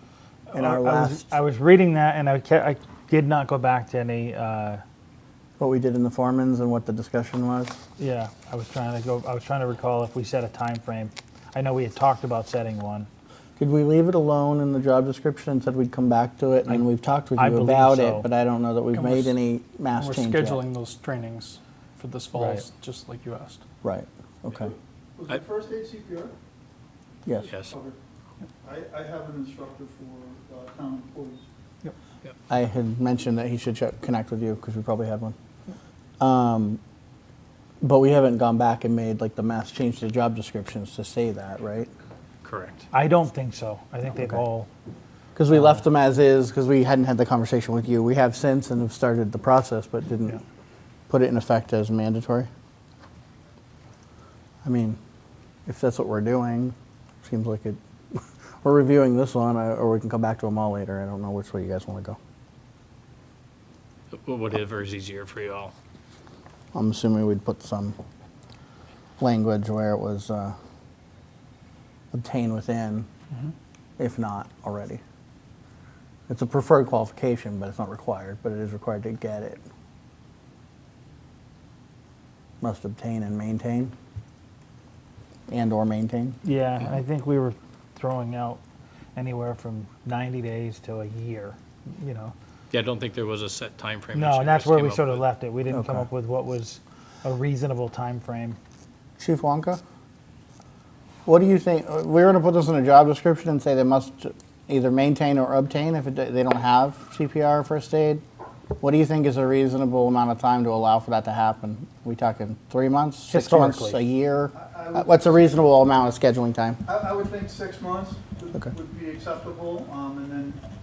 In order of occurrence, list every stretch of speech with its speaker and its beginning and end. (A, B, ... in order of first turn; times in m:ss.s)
0:00.5-0:04.8 A
0:00.5-0:01.4 B
0:05.6-0:07.8 B
0:08.0-0:13.1 A
0:13.6-0:20.6 B
0:17.4-0:18.3 A
0:18.9-0:19.2 C
0:20.0-0:23.6 C
0:22.3-0:22.7 A
0:23.8-0:24.7 B
0:24.6-0:26.3 D
0:27.5-0:27.7 E
0:27.5-0:28.0 D
0:28.6-0:31.4 D
0:32.5-0:35.4 B
0:36.2-0:36.8 B
0:37.8-0:41.9 B
0:42.4-0:42.8 E
0:42.9-0:44.7 A
0:45.4-0:50.4 B
0:51.1-0:52.5 B
0:54.6-0:55.0 B
0:55.6-1:02.2 B
1:04.1-1:05.7 E
1:06.7-1:08.0 B
1:09.2-1:10.6 B
1:12.1-1:13.1 B
1:14.0-1:15.0 B
1:16.3-1:19.6 B
1:22.6-1:23.9 B
1:25.5-1:26.4 B
1:26.4-1:28.6 A
1:29.2-1:32.3 A
1:32.7-1:35.3 E
1:34.1-1:38.6 A
1:35.7-1:36.1 B
1:39.2-1:39.8 B
1:41.2-1:48.2 B
1:48.8-1:56.8 B
1:53.3-1:54.0 A
1:54.5-1:55.3 D
1:56.8-2:00.6 D